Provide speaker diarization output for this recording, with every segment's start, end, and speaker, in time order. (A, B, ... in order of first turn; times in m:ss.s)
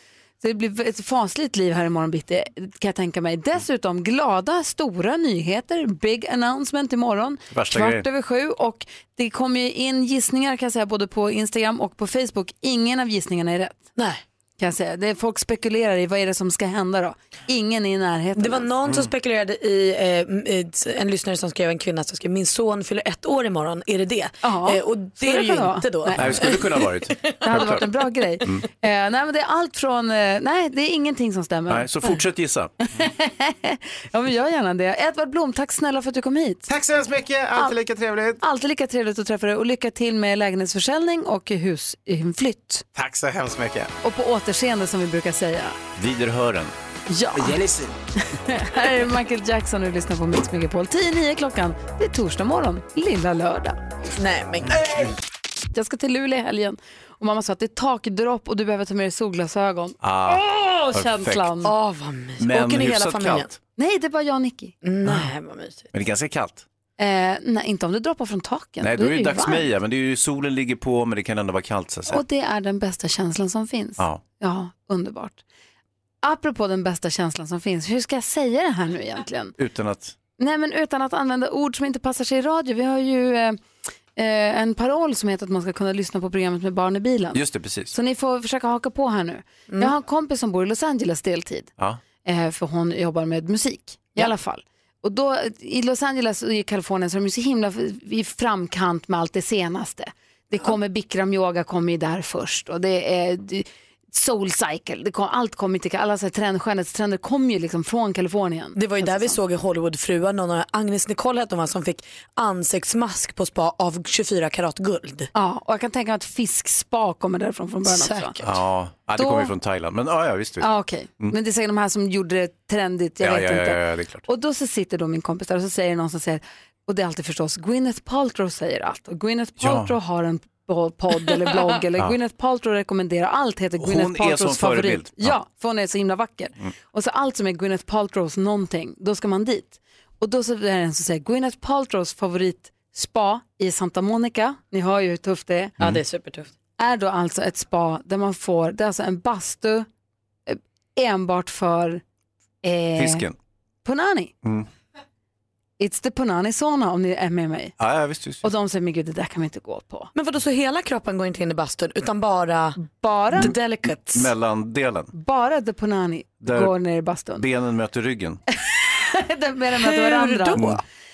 0:00.4-0:13.8 A
0:07.5-0:08.0 B
0:14.0-0:14.2 C
0:14.6-0:18.7 A
0:18.4-0:27.4 C
0:24.4-0:26.6 A
0:26.2-0:27.9 B
0:27.4-0:32.2 A
0:31.7-0:32.7 B
0:32.9-0:36.6 A
0:36.7-0:38.4 D
0:38.4-0:42.8 A
0:42.9-0:43.9 D
0:44.0-0:45.8 A
0:46.0-0:46.7 B
0:47.1-0:47.6 A
0:47.3-0:47.9 D
0:48.3-0:53.8 A
0:54.1-0:55.0 C
0:55.7-1:01.7 A
1:00.0-1:01.5 B
1:01.6-1:03.5 C
1:02.4-1:03.6 B
1:03.8-1:04.8 A
1:04.8-1:05.9 C
1:05.9-1:06.6 B
1:07.0-1:09.7 A
1:08.8-1:12.2 B
1:12.1-1:15.4 A
1:16.2-1:19.5 A
1:19.6-1:20.1 B
1:20.4-1:23.6 A
1:24.1-1:31.7 A
1:27.3-1:27.9 B
1:32.2-1:49.4 A
1:48.8-1:55.3 C
1:55.3-1:58.3 A
1:57.8-1:58.5 C
1:58.4-2:00.7 B
1:59.2-1:59.5 A
2:00.6-2:25.8 A
2:03.2-2:04.2 B
2:09.6-2:10.0 B
2:13.8-2:15.4 B
2:25.8-2:26.5 C
2:26.8-2:29.9 A
2:30.5-2:32.0 A
2:32.6-2:33.2 A
2:33.0-2:33.4 B
2:33.8-2:34.3 A
2:35.8-2:37.8 A
2:37.8-2:38.4 B
2:38.4-2:40.1 A
2:40.1-2:42.8 C
2:42.8-2:43.5 A
2:43.3-2:44.3 C
2:44.1-2:45.1 B
2:45.1-2:47.4 A
2:46.4-2:46.7 B
2:47.3-2:48.4 B
2:48.9-2:50.6 A
2:49.8-2:50.8 C
2:50.5-2:50.8 B